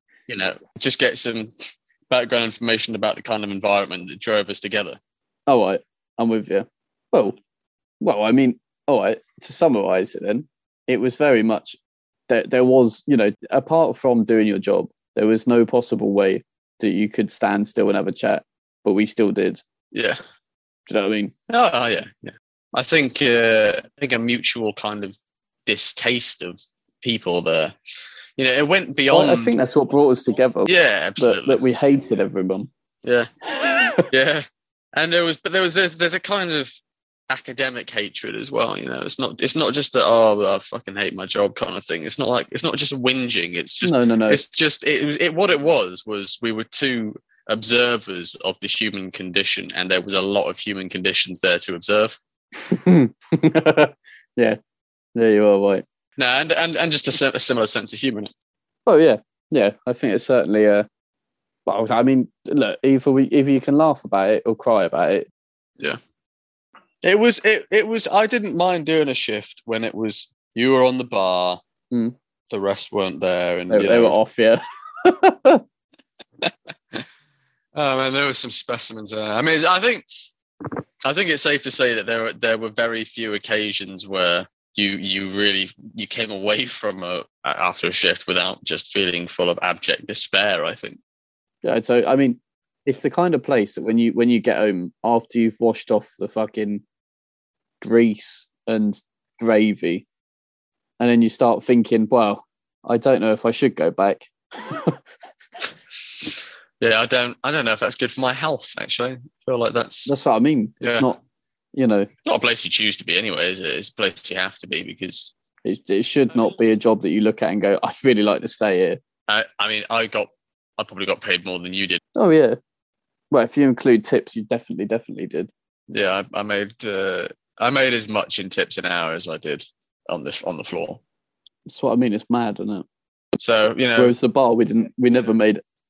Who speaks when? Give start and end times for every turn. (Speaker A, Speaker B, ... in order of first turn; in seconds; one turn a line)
Speaker A: 0.3-1.5
Speaker A: 2.1-5.0
Speaker B: 5.5-7.4
Speaker B: 8.0-11.8
Speaker B: 12.3-19.6
Speaker A: 19.9-20.2
Speaker B: 20.9-21.3
Speaker A: 21.5-27.7
Speaker A: 28.4-29.6
Speaker B: 29.1-32.7
Speaker A: 30.7-31.6
Speaker A: 33.0-33.3
Speaker B: 33.5-34.1
Speaker A: 34.1-34.5
Speaker A: 35.0-36.7
Speaker A: 37.3-52.2
Speaker B: 43.8-44.4
Speaker B: 52.7-54.6
Speaker B: 55.1-55.8
Speaker A: 56.2-58.3
Speaker B: 58.9-60.9
Speaker B: 61.7-65.3
Speaker A: 67.0-71.6
Speaker A: 72.5-74.2
Speaker B: 73.7-75.6
Speaker A: 76.4-77.0
Speaker A: 77.8-80.1
Speaker A: 81.0-91.0
Speaker B: 91.6-96.8
Speaker B: 97.8-100.1
Speaker B: 101.0-105.0
Speaker A: 106.2-110.1
Speaker B: 110.1-111.2
Speaker A: 110.8-111.1
Speaker B: 111.8-112.1
Speaker A: 112.3-115.3
Speaker B: 115.7-119.0
Speaker A: 119.3-122.0
Speaker B: 122.2-122.6
Speaker B: 123.3-125.5
Speaker A: 125.9-131.0
Speaker B: 131.7-132.9
Speaker A: 133.4-134.1
Speaker B: 134.0-135.6